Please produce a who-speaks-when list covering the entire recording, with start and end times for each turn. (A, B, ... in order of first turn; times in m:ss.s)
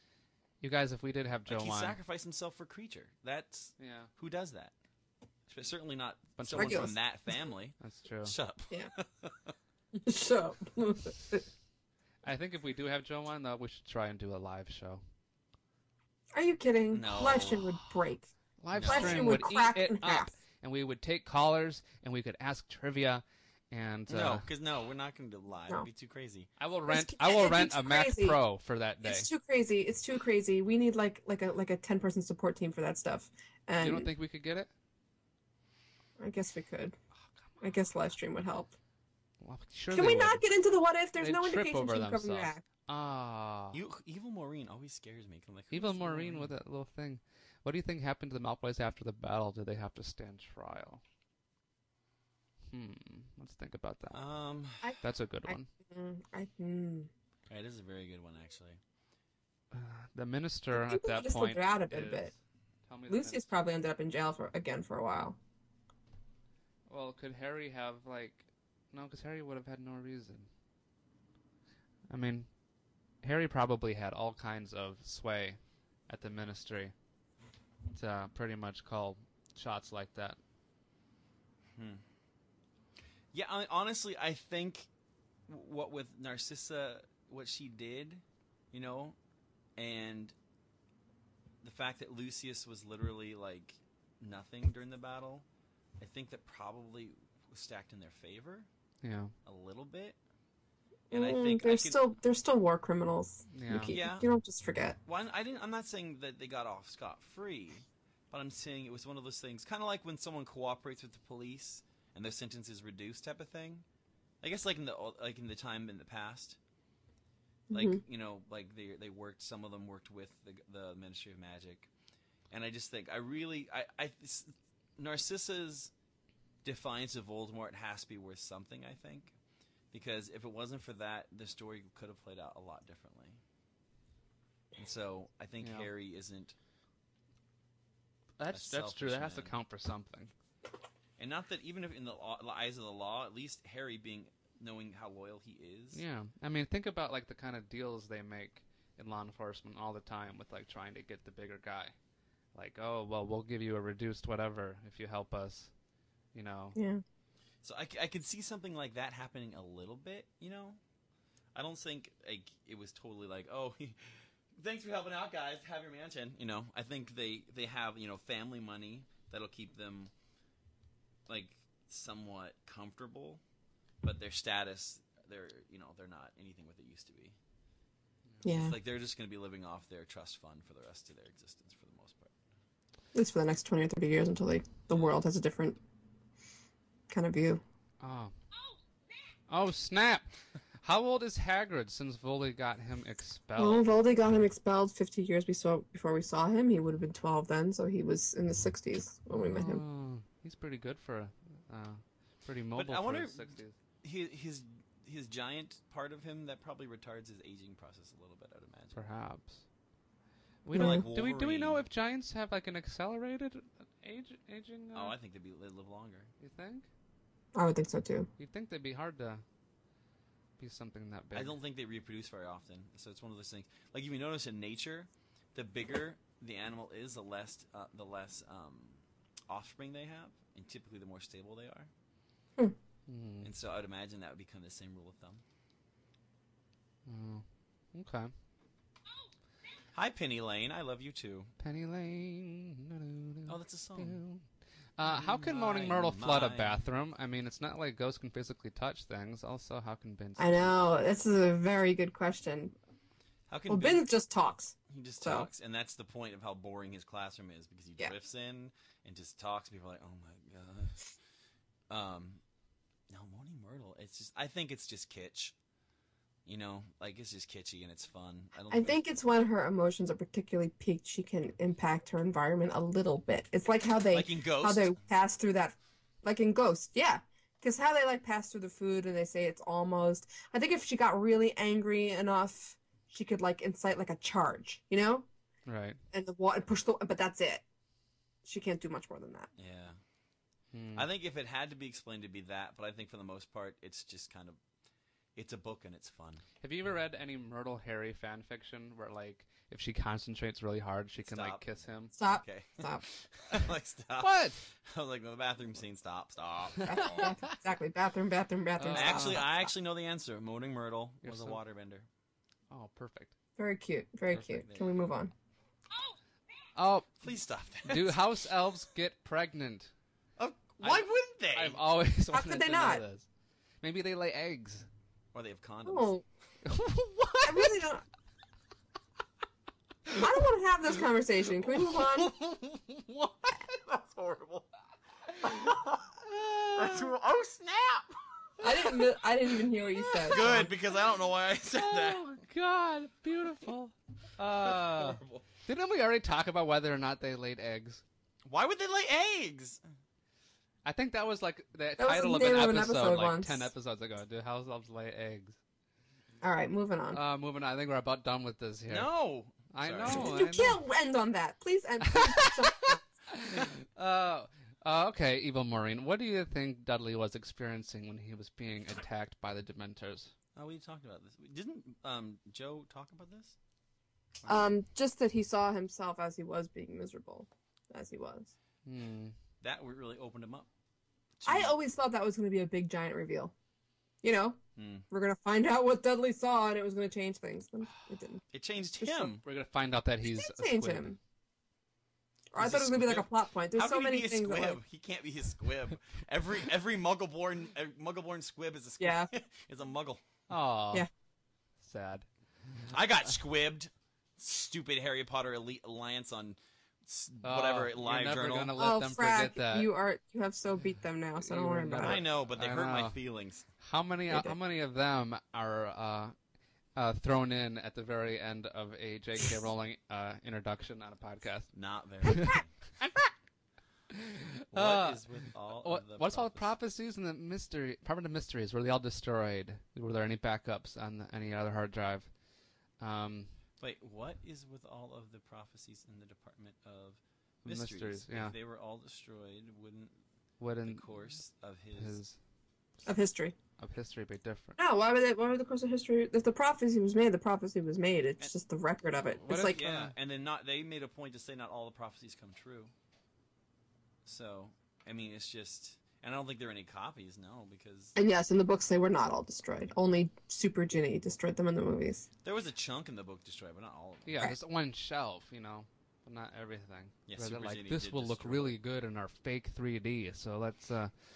0:00.6-0:02.0 A
0:01.5-0:04.7 B
0:03.8-0:04.1 A
0:05.5-0:09.5 B
0:06.4-0:07.0 A
0:06.5-0:06.9 C
0:07.8-0:08.3 A
0:09.9-0:11.4 C
0:12.2-0:15.0 A
0:16.3-0:18.3 C
0:16.9-0:17.7 B
0:18.6-0:24.5 A
0:18.7-0:19.3 B
0:18.8-0:20.3 C
0:24.1-0:26.5 B
0:26.6-0:29.3 A
0:26.9-0:28.4 C
0:29.0-0:34.1 C
0:33.8-0:34.7 A
0:36.2-0:37.0 C
0:37.6-0:38.7 C
0:39.4-0:40.4 A
0:39.9-0:42.6 C
0:41.2-0:43.8 A
0:43.7-0:46.5 B
0:45.7-0:51.0 A
0:52.7-0:54.2 A
0:54.1-0:54.9 B
0:54.8-0:57.1 C
0:55.0-0:55.7 A
0:57.5-0:58.8 B
0:59.7-1:02.3 A
1:00.7-1:02.3 C
1:02.9-1:03.5 A
1:03.1-1:05.4 C
1:06.9-1:10.5 A
1:12.1-1:12.5 A
1:13.2-1:16.9 A
1:17.9-1:20.4 A
1:21.8-1:22.0 B
1:23.3-1:24.9 B
1:25.5-1:29.2 B
1:29.8-1:30.3 B
1:31.6-1:35.4 B
1:36.0-1:38.7 B
1:39.0-1:39.3 A
1:39.4-1:40.2 B
1:41.1-1:42.0 B
1:41.1-1:45.0 C
1:43.5-1:44.0 A
1:43.9-1:44.2 B
1:45.0-1:53.8 B
1:54.4-1:56.6 B
1:57.7-1:58.0 C
1:57.7-2:01.9 B
2:02.5-2:05.9 B
2:06.6-2:09.3 B
2:09.9-2:13.4 B
2:14.8-2:16.5 B
2:15.6-2:15.9 A
2:18.4-2:20.3 A
2:18.5-2:19.5 B
2:21.2-2:26.0 B
2:25.9-2:31.9 A
2:32.5-2:35.7 A
2:36.3-2:36.8 A
2:36.7-2:37.0 C
2:37.6-2:40.8 B
2:41.5-2:50.1 B
2:51.3-2:53.4 B
2:54.0-2:57.4 B
2:58.4-2:58.8 C
2:58.4-3:02.3 B
3:03.1-3:05.8 C
3:07.1-3:07.6 C
3:08.0-3:08.3 A
3:09.5-3:10.3 A
3:10.8-3:13.9 A
3:13.6-3:19.8 C
3:19.4-3:23.7 A
3:22.7-3:23.5 B
3:24.0-3:29.0 B
3:28.9-3:29.6 A
3:30.6-3:35.2 A
3:30.7-3:31.0 C
3:30.7-3:31.8 B
3:34.9-3:36.3 B
3:36.4-3:36.9 A
3:37.5-3:38.3 C
3:38.4-3:39.4 A
3:40.6-3:41.6 A
3:41.3-3:51.9 B
3:53.1-3:53.5 A
3:53.4-3:55.4 B
3:57.0-3:58.3 A
3:59.9-4:01.5 B
4:01.6-4:04.4 A
4:03.5-4:04.2 B
4:05.0-4:10.8 A
4:05.0-4:06.8 B
4:10.4-4:12.7 C
4:13.5-4:14.1 B
4:13.7-4:15.5 C
4:14.9-4:21.1 B
4:21.9-4:22.4 B
4:23.1-4:25.5 B
4:26.4-4:29.1 B
4:28.7-4:45.3 C
4:34.1-4:35.0 B
4:45.7-4:46.0 A
4:46.1-4:47.6 C
4:48.4-4:49.5 C
4:49.6-4:50.0 B
4:50.7-4:51.1 A
4:51.0-4:54.6 B
4:55.4-4:56.4 B
4:56.6-5:02.1 A
5:01.2-5:01.6 B
5:02.1-5:07.4 B
5:02.2-5:03.0 C
5:04.2-5:04.6 A
5:06.8-5:09.7 C
5:08.8-5:09.4 A
5:08.9-5:12.1 B
5:11.2-5:11.6 A
5:12.7-5:13.3 A
5:13.6-5:15.3 C
5:14.3-5:15.0 B
5:16.8-5:17.1 A
5:17.2-5:18.3 B
5:17.8-5:19.9 A
5:20.4-5:21.8 B
5:20.8-5:23.2 A
5:22.3-5:23.0 C
5:23.8-5:24.9 A
5:25.3-5:26.1 B
5:25.8-5:26.2 C
5:26.6-5:27.8 A
5:27.4-5:28.0 C
5:30.2-5:32.3 C
5:32.4-5:33.3 A
5:33.4-5:34.7 B
5:35.4-5:38.9 B
5:38.6-5:40.7 C
5:40.2-5:42.4 B
5:41.8-5:48.0 A
5:44.4-5:45.4 B
5:48.4-5:49.8 B
5:50.8-5:55.6 A
5:52.0-5:53.7 C
5:56.4-5:57.2 C
5:57.1-5:59.1 A
5:58.9-6:00.3 B
5:59.7-6:00.8 A
6:00.0-6:03.0 C
6:02.0-6:10.3 A
6:10.6-6:13.6 B
6:14.4-6:14.8 B
6:14.5-6:18.5 C
6:18.8-6:19.3 A
6:19.6-6:20.7 B
6:21.4-6:21.8 B
6:21.4-6:23.5 C
6:24.2-6:28.4 C
6:24.8-6:25.0 B
6:28.5-6:29.4 B
6:29.0-6:29.3 C
6:29.4-6:31.1 A
6:30.2-6:31.2 C
6:32.5-6:34.8 C
6:32.6-6:40.2 B
6:39.0-6:39.3 C
6:40.5-6:41.1 A
6:41.8-6:42.2 A
6:42.9-6:48.7 B
6:47.4-6:49.9 A
6:48.8-6:52.2 C
6:51.4-6:53.2 A
6:52.0-6:53.7 B
6:53.8-6:56.3 A
6:54.3-6:54.5 C
6:57.0-7:01.7 A
7:01.7-7:02.7 B
7:02.2-7:02.6 C
7:04.1-7:05.2 A
7:04.7-7:06.7 B
7:05.8-7:12.3 A
7:13.0-7:13.5 A
7:13.8-7:20.2 B
7:17.6-7:18.5 A
7:20.6-7:21.1 A
7:20.8-7:22.2 B
7:22.0-7:22.4 A
7:23.0-7:23.6 C
7:23.8-7:24.8 A
7:24.8-7:29.8 C
7:29.4-7:30.1 A
7:29.5-7:32.9 B
7:34.2-7:38.1 B
7:38.1-7:42.2 C
7:42.4-7:44.3 B
7:44.2-7:51.1 A
7:47.3-7:48.8 B